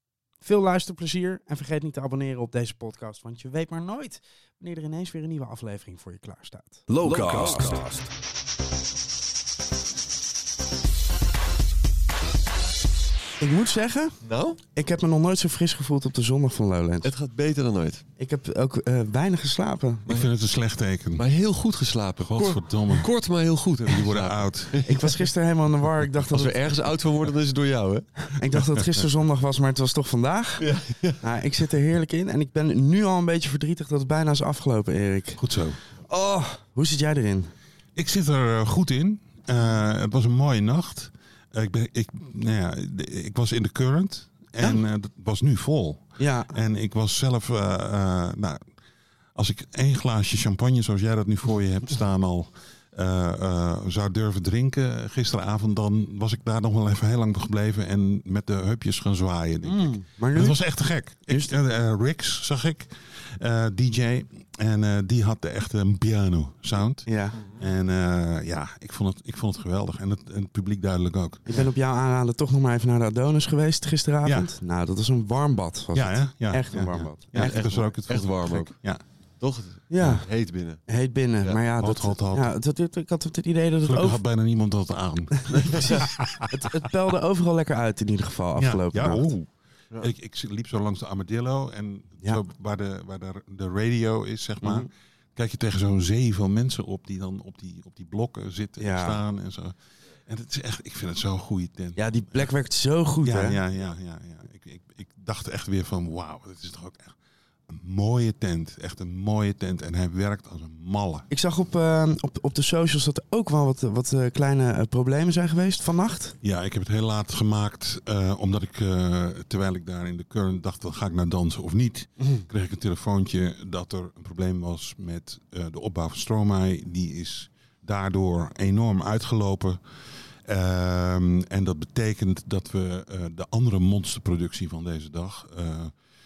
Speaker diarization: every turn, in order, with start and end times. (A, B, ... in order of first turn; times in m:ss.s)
0:00.4-0:07.8 A
0:07.0-0:07.8 B
0:13.4-0:14.2 A
0:14.2-0:14.6 B
0:14.7-0:17.1 A
0:17.0-0:18.0 B
0:18.2-0:20.0 A
0:20.1-0:21.2 C
0:21.2-0:25.2 B
0:22.2-0:23.1 C
0:23.9-0:24.8 C
0:24.8-0:26.8 A
0:26.3-0:28.3 B
0:28.4-0:30.7 A
0:30.6-0:31.2 B
0:31.2-0:35.4 A
0:35.4-0:35.8 C
0:36.1-0:37.5 A
0:38.0-0:48.6 C
0:46.2-0:46.6 A
0:49.4-1:11.4 C
0:59.6-1:00.6 A
1:01.3-1:01.6 A
1:07.1-1:07.4 A
1:07.4-1:07.6 B
1:11.5-1:17.6 A
1:14.2-1:14.5 C
1:15.9-1:19.0 C
1:17.3-1:18.7 B
1:19.4-1:20.8 B
1:19.9-1:20.3 A
1:20.8-1:24.2 A
1:21.8-1:22.5 C
1:23.8-1:26.2 C
1:25.6-1:29.3 A
1:28.6-1:29.5 C
1:30.0-1:39.8 C
1:34.6-1:34.9 A
1:38.8-1:39.2 A
1:40.3-1:42.5 C
1:42.0-1:43.6 A
1:43.2-1:47.2 C
1:47.7-1:51.3 C
1:51.3-1:56.4 A
1:56.4-2:09.8 C
2:10.4-2:15.9 C